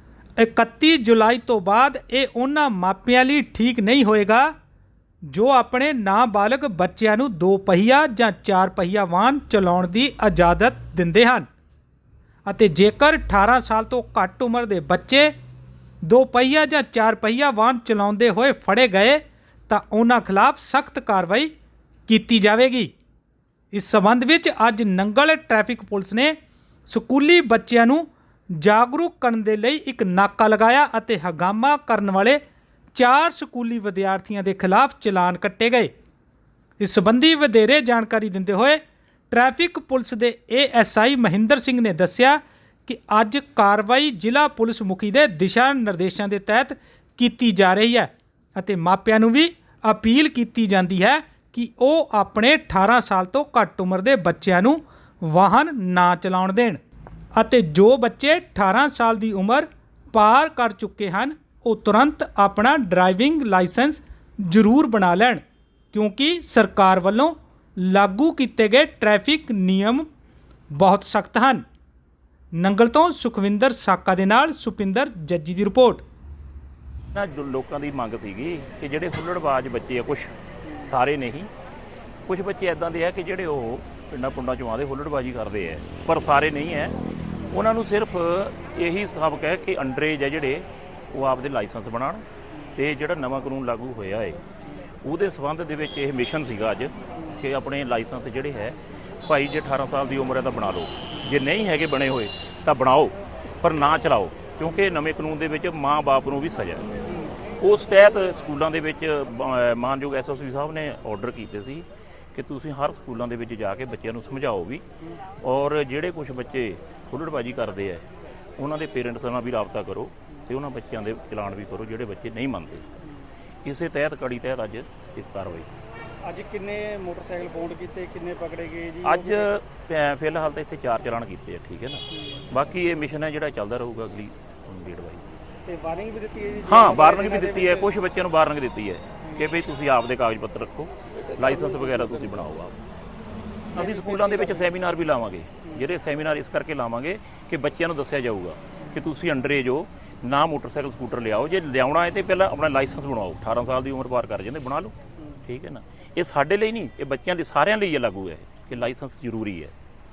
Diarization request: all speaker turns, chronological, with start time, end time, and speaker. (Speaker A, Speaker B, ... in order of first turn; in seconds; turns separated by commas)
Speaker A: 0.4-4.5, Speaker A: 5.3-11.5, Speaker A: 12.4-15.3, Speaker A: 16.0-21.5, Speaker A: 22.1-22.9, Speaker A: 23.7-26.3, Speaker A: 26.9-32.4, Speaker A: 32.9-35.9, Speaker A: 36.8-38.8, Speaker A: 39.3-56.8, Speaker A: 57.4-65.4, Speaker A: 65.9-70.0, Speaker A: 70.7-71.6, Speaker A: 72.5-76.0, Speaker B: 77.1-80.3, Speaker B: 80.8-81.5, Speaker B: 82.3-87.0, Speaker B: 87.5-92.2, Speaker B: 92.8-94.4, Speaker B: 95.0-106.9, Speaker C: 107.1-107.3, Speaker B: 107.6-114.8, Speaker B: 115.4-118.0, Speaker B: 118.6-122.9, Speaker B: 123.6-125.7, Speaker C: 126.2-129.5, Speaker B: 129.0-135.2, Speaker C: 132.1-132.4, Speaker C: 135.7-137.9, Speaker B: 136.7-142.8, Speaker C: 141.6-142.0, Speaker B: 143.7-154.9, Speaker C: 143.7-144.7, Speaker B: 155.4-159.7